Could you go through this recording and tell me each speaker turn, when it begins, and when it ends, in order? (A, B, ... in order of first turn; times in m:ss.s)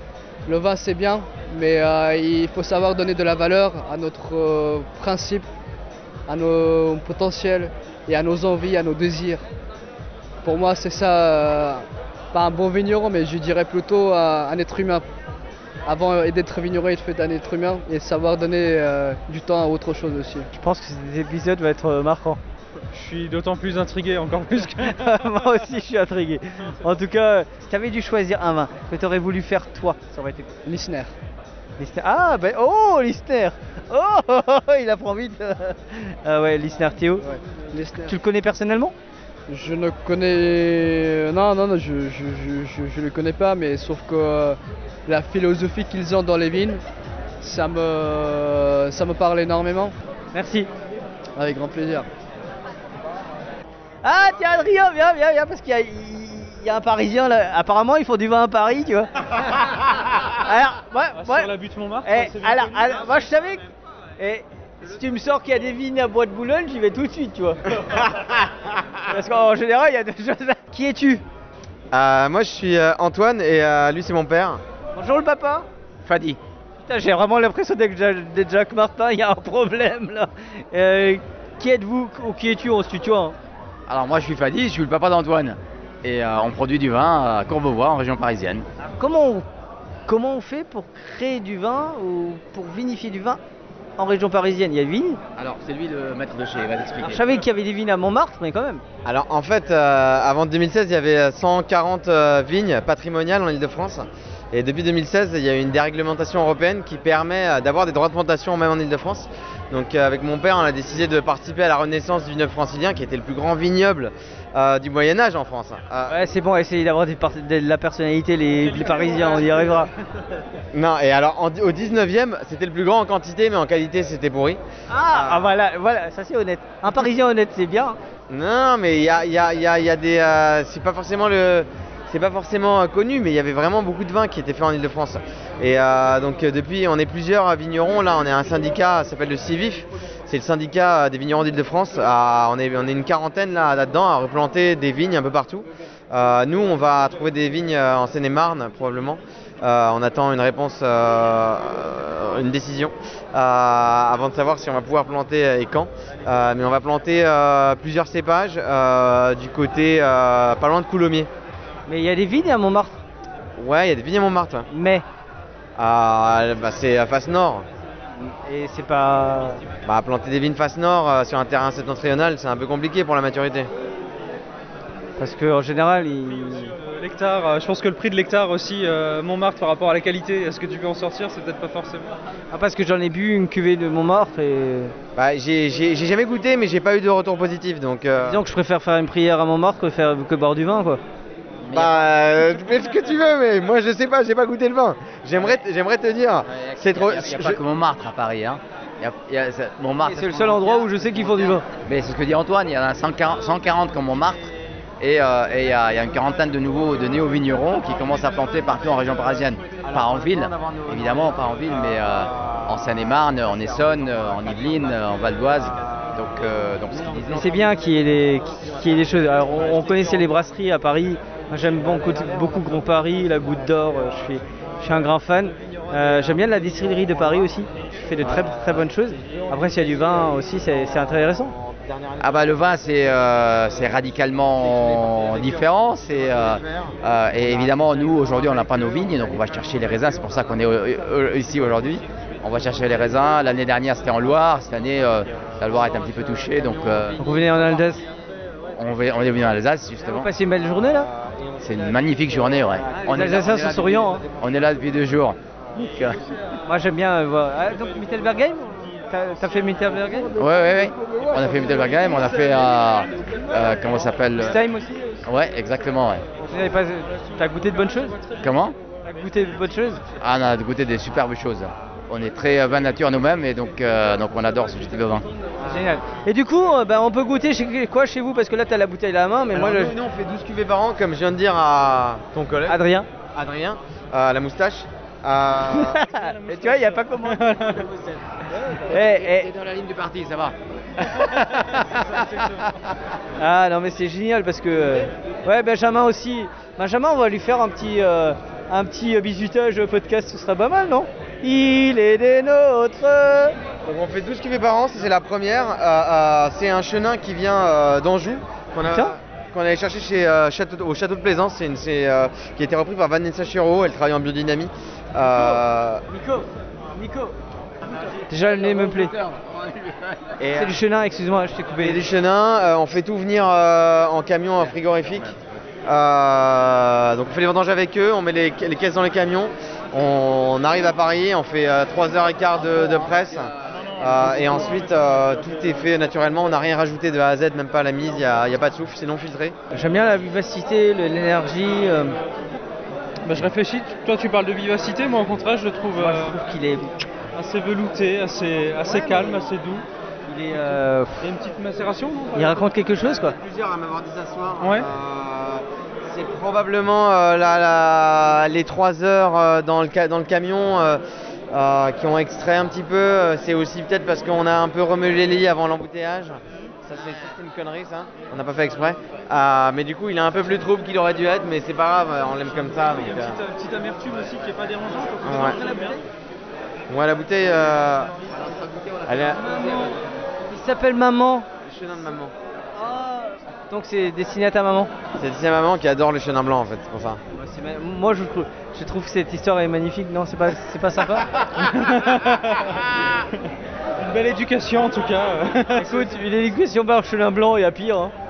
0:00.4-0:05.4 A
0:06.3-0:09.4 A
0:10.4-0:15.0 A
0:15.8-0:20.5 A
0:20.5-0:22.4 B
0:22.9-0:25.1 C
0:24.8-0:30.5 B
0:30.6-0:31.1 A
0:31.8-0:37.2 B
0:37.2-0:38.2 A
0:38.0-0:38.9 B
0:39.5-0:46.8 A
0:47.4-0:49.9 A
0:50.3-0:50.7 B
0:51.4-0:52.0 A
0:54.0-0:59.1 B
1:00.4-1:01.5 B
1:01.2-1:03.4 C
1:02.0-1:03.6 B
1:04.2-1:07.6 B
1:09.1-1:11.2 B
1:11.9-1:14.6 D
1:14.9-1:15.7 B
1:16.0-1:16.4 E
1:16.8-1:23.3 B
1:23.9-1:28.6 E
1:29.0-1:29.4 B
1:30.1-1:33.4 B
1:34.0-1:35.2 B
1:35.4-1:37.3 E
1:37.0-1:38.8 B
1:39.0-1:56.2 D
1:56.1-1:59.9 B
2:00.7-2:04.6 D
2:04.9-2:08.0 B
2:05.1-2:05.5 D
2:08.3-2:41.3 D
2:41.9-2:43.0 B
2:43.6-2:44.7 D
2:44.7-2:45.0 B
2:45.8-2:47.6 D
2:48.2-2:49.6 B
2:49.8-2:53.7 D
2:55.2-2:56.7 B
2:56.8-3:02.1 C
3:02.5-3:04.9 B
3:05.2-3:08.4 D
3:08.2-3:11.0 B
3:11.6-3:12.0 E
3:11.7-3:17.6 D
3:16.5-3:37.5 E
3:20.0-3:21.6 B
3:37.3-3:51.5 B
3:52.2-4:07.2 E
4:07.2-4:08.0 B
4:08.8-4:10.3 E
4:10.0-4:11.1 B
4:11.6-4:16.2 E
4:13.0-4:14.2 B
4:16.6-4:20.3 B
4:20.3-4:24.6 E
4:24.4-4:25.2 B
4:25.2-4:26.2 E
4:26.4-4:28.2 B
4:28.4-4:28.8 E
4:29.0-4:30.0 B
4:30.2-4:35.3 E
4:35.6-4:39.9 B
4:39.5-4:42.8 D
4:42.7-4:43.1 B
4:43.3-4:46.0 D
4:45.7-4:47.8 B
4:46.1-4:47.9 C
4:48.9-4:49.5 B
4:48.9-4:50.5 E
4:52.1-4:52.5 C
4:53.4-5:03.5 B
5:03.8-5:16.0 D
5:08.9-5:09.1 B
5:15.3-5:17.3 B
5:18.3-5:19.1 B
5:20.4-5:20.8 D
5:20.5-5:22.0 B
5:21.8-5:25.3 D
5:25.8-5:39.6 D
5:39.7-5:42.2 B
5:43.2-5:46.4 C
5:46.0-5:46.9 B
5:47.3-5:49.8 C
5:48.8-5:49.4 B
5:50.3-5:51.2 B
5:50.5-5:52.6 C
5:52.3-5:53.4 B
5:53.0-6:01.0 D
5:54.6-5:54.9 C
6:01.5-6:13.4 D
6:12.9-6:16.0 C
6:15.2-6:15.6 D
6:16.9-6:18.1 D
6:19.1-6:19.4 D
6:19.1-6:19.9 B
6:20.5-6:21.5 B
6:21.6-6:22.3 D
6:22.8-6:24.9 B
6:25.2-6:27.2 D
6:27.3-6:31.3 B
6:31.6-6:32.7 C
6:34.0-6:36.1 C
6:35.8-6:38.1 B